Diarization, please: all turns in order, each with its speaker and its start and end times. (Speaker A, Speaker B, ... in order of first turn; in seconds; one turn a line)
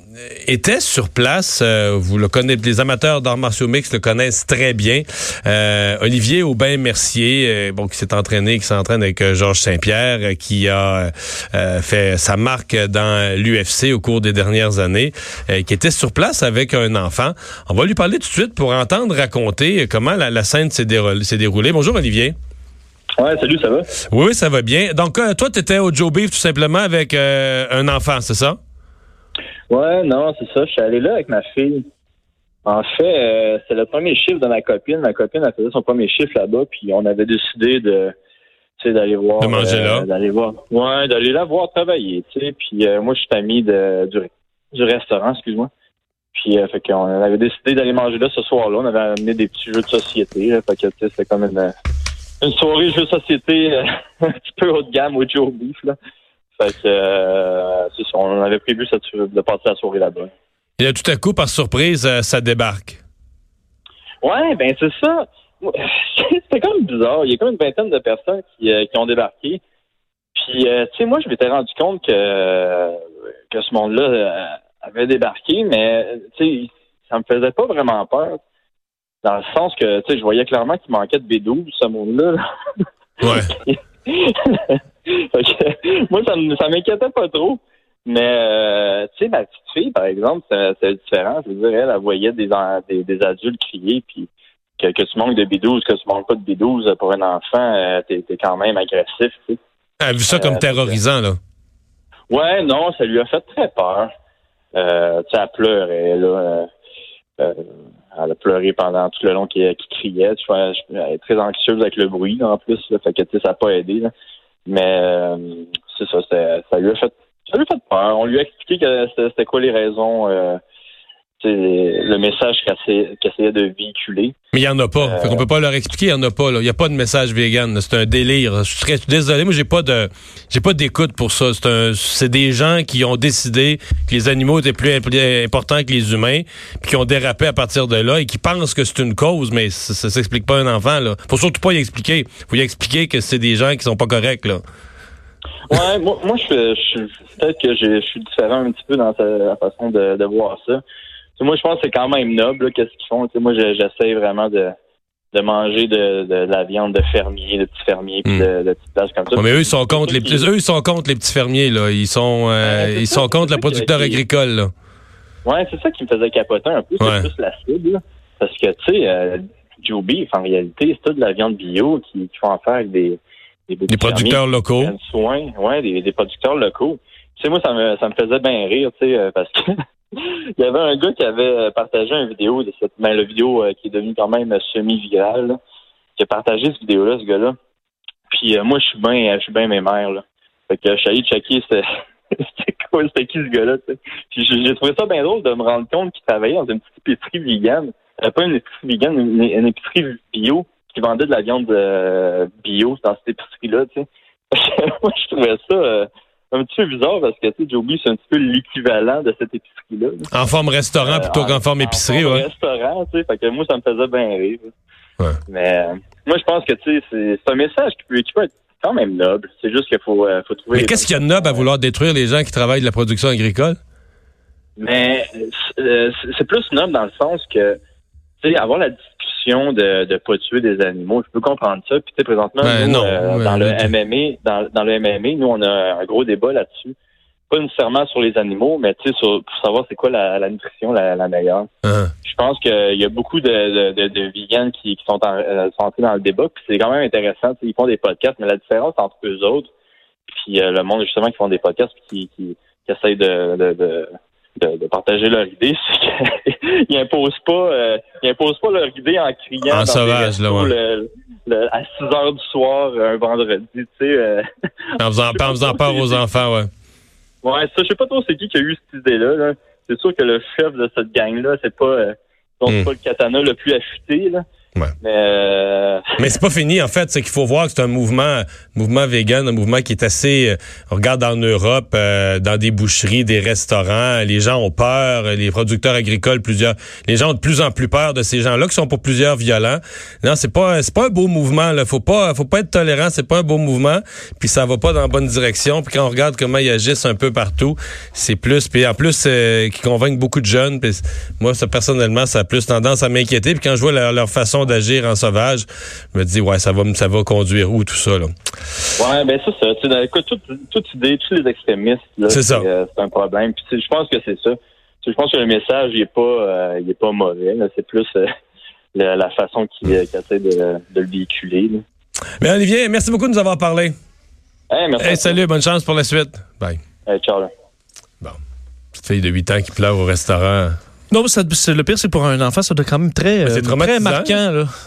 Speaker A: 0.4-22.3
Speaker B: 23.2-23.9
Speaker A: 24.1-28.6
Speaker B: 29.7-31.8
Speaker B: 32.6-38.1
Speaker B: 38.8-45.7
Speaker A: 39.4-40.1
Speaker B: 46.3-51.7
Speaker B: 52.4-55.9
Speaker B: 56.6-60.3
Speaker A: 60.8-63.0
Speaker B: 64.2-69.6
Speaker B: 70.3-73.0
Speaker B: 73.5-78.4
Speaker B: 79.2-82.4
Speaker A: 83.2-83.5
Speaker B: 83.5-94.3
Speaker B: 94.8-99.6
Speaker A: 100.0-101.4
Speaker B: 100.3-101.0
Speaker B: 102.3-104.1
Speaker B: 104.7-106.7
Speaker B: 107.4-114.1
Speaker B: 114.7-120.6
Speaker B: 121.4-124.3
Speaker A: 124.5-144.6
Speaker B: 125.0-125.4
Speaker B: 145.7-150.8
Speaker B: 151.4-154.7
Speaker B: 155.3-160.5
Speaker A: 159.3-164.7
Speaker B: 162.6-164.2
Speaker B: 165.4-185.6
Speaker A: 173.9-174.9
Speaker B: 186.2-187.5
Speaker B: 188.3-210.3
Speaker A: 210.3-212.4
Speaker B: 211.0-214.7
Speaker B: 215.5-221.7
Speaker A: 220.7-223.8
Speaker B: 224.8-227.8
Speaker B: 228.4-236.9
Speaker A: 232.6-233.9
Speaker B: 237.5-241.7
Speaker A: 241.8-242.1
Speaker B: 242.2-249.7
Speaker B: 250.3-264.4
Speaker A: 259.6-260.7
Speaker A: 265.0-266.7
Speaker B: 265.3-266.2
Speaker B: 267.4-274.4
Speaker B: 275.0-276.1
Speaker A: 276.2-308.3
Speaker B: 309.0-318.3
Speaker A: 312.3-312.7
Speaker B: 318.9-321.8
Speaker A: 322.4-323.9
Speaker B: 324.7-325.4
Speaker A: 325.0-326.8
Speaker B: 327.1-327.5
Speaker A: 328.9-330.8
Speaker C: 331.1-334.7
Speaker A: 333.4-334.4